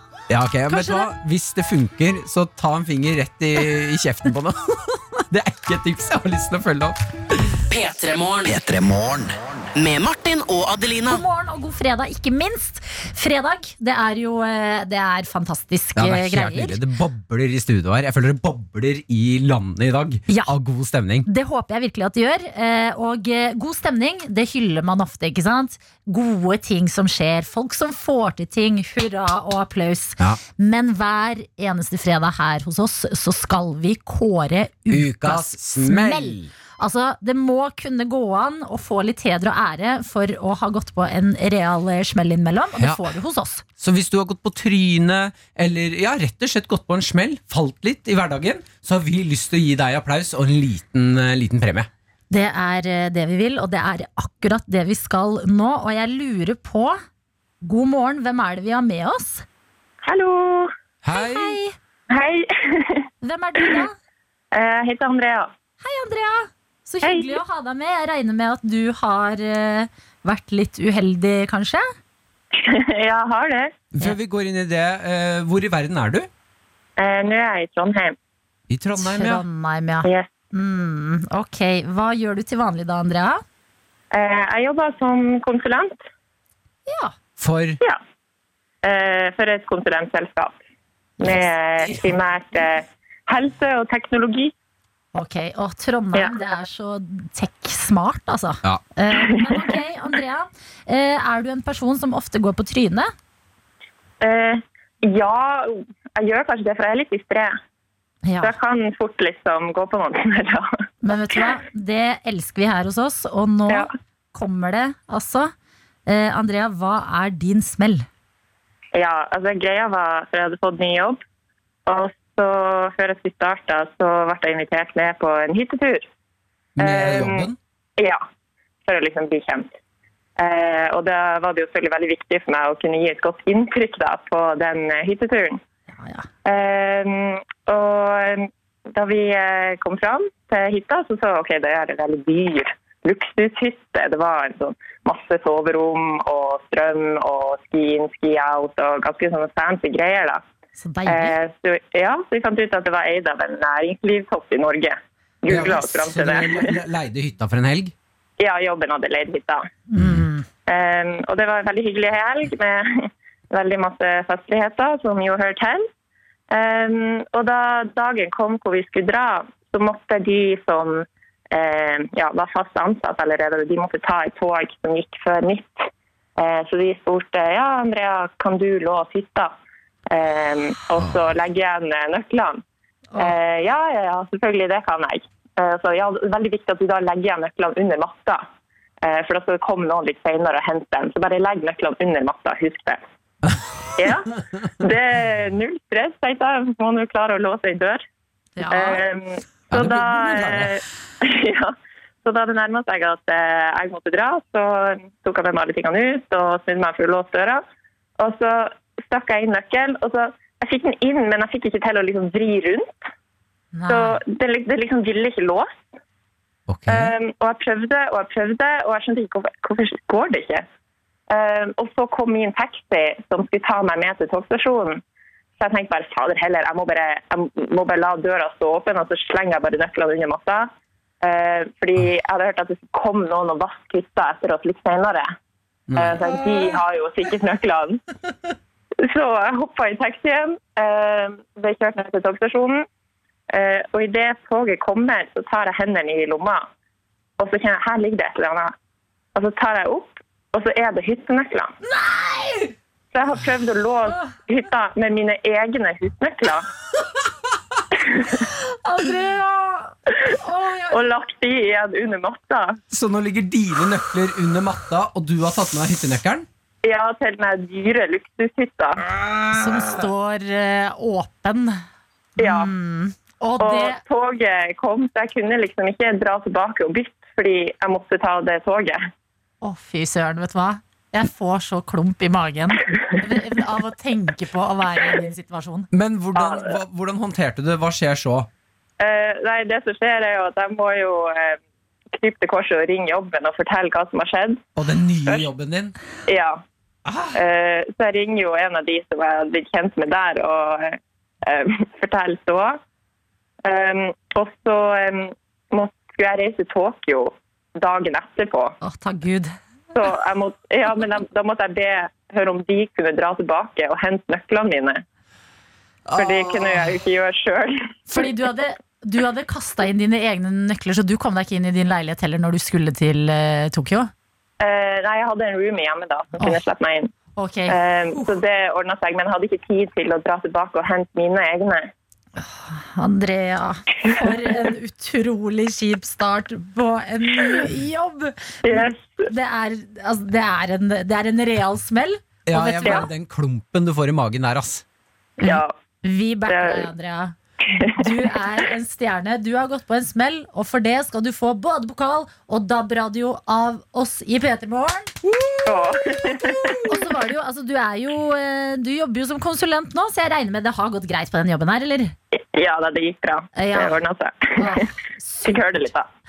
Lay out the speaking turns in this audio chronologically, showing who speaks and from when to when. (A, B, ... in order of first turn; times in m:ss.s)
0:00.3-0:07.5 A
0:00.7-0:01.1 B
0:07.7-0:11.2 C
0:11.1-0:16.8 B
0:16.0-0:21.3 A
0:20.3-0:20.5 B
0:21.3-0:43.6 B
0:34.9-0:36.5 A
0:42.8-0:43.0 A
0:43.8-0:51.9 A
0:52.3-0:57.0 B
0:57.6-0:59.4 B
1:00.0-1:00.7 D
1:01.0-1:01.6 A
1:01.1-1:01.8 B
1:02.1-1:03.1 D
1:03.2-1:04.0 B
1:04.5-1:05.5 D
1:05.8-1:11.9 B
1:07.0-1:07.4 D
1:12.5-1:13.7 D
1:13.9-1:16.3 A
1:17.0-1:18.2 D
1:18.7-1:19.4 A
1:19.0-1:23.4 B
1:20.0-1:20.3 D
1:24.1-1:26.0 D
1:26.9-1:27.1 B
1:27.4-1:27.8 A
1:28.8-1:30.6 D
1:31.2-1:34.5 D
1:35.2-1:43.1 B
1:39.2-1:39.6 D
1:44.2-1:47.6 D
1:48.3-1:48.5 B
1:48.4-1:50.7 D
1:51.0-1:55.5 B
1:56.1-1:58.1 B
1:59.0-2:01.2 D
2:01.9-2:06.1 D
2:06.8-2:07.6 A
2:06.8-2:08.2 D
2:08.8-2:09.7 D
2:10.4-2:15.6 D
2:16.0-2:16.3 B
2:16.4-2:30.4 D
2:30.8-2:31.4 B
2:31.1-2:36.7 D
2:35.5-2:38.0 A
2:38.4-2:39.6 D
2:39.9-2:40.4 B
2:40.7-2:45.9 D
2:46.5-2:59.5 D
3:00.1-3:02.6 D
3:03.2-3:08.4 D
3:09.0-3:13.0 D
3:14.0-3:18.0 D
3:18.6-3:19.0 B
3:18.7-3:27.6 D
3:19.7-3:20.7 A
3:28.2-3:33.0 D
3:33.7-3:34.2 B
3:33.9-3:35.9 D
3:36.7-3:37.1 A
3:36.9-3:40.6 D
3:41.3-3:45.0 D
3:45.6-3:50.7 D
3:51.2-3:55.3 D
3:55.9-3:56.2 A
3:56.0-3:58.0 D
3:59.0-4:02.8 D
4:03.5-4:06.7 D
4:07.4-4:08.7 D
4:09.4-4:11.7 D
4:11.9-4:12.7 B
4:13.1-4:16.7 D
4:18.0-4:18.4 D
4:18.4-4:21.1 B
4:20.9-4:22.8 D
4:22.9-4:26.5 A
4:26.8-4:29.0 D
4:29.3-4:29.9 A
4:29.5-4:31.8 B
4:32.4-4:32.7 D
4:32.4-4:34.0 B
4:33.6-4:39.1 D
4:39.6-4:45.9 B
4:45.9-4:48.5 A
4:46.4-4:46.7 D
4:49.0-4:51.6 D
4:52.1-4:54.6 D
4:54.8-4:56.0 A
4:56.3-4:56.6 D
4:57.1-4:57.4 A
4:57.3-5:02.8 D
5:03.6-5:08.8 D
5:08.8-5:09.6 B
5:09.9-5:15.0 D
5:16.1-5:16.8 A
5:16.2-5:18.0 D
5:18.1-5:24.1 B
5:24.6-5:27.1 D
5:27.4-5:28.3 B
5:27.7-5:31.9 D
5:32.4-5:43.1 B
5:38.6-5:39.3 D
5:42.5-5:44.8 A
5:45.4-5:47.4 B
5:45.4-5:45.7 D
5:46.5-5:46.9 D
5:47.7-5:48.3 D
5:48.0-5:55.3 B
5:55.6-5:57.0 D
5:56.8-6:02.2 B
6:02.3-6:04.9 D
6:03.6-6:04.0 B
6:04.6-6:05.9 B
6:05.4-6:06.1 D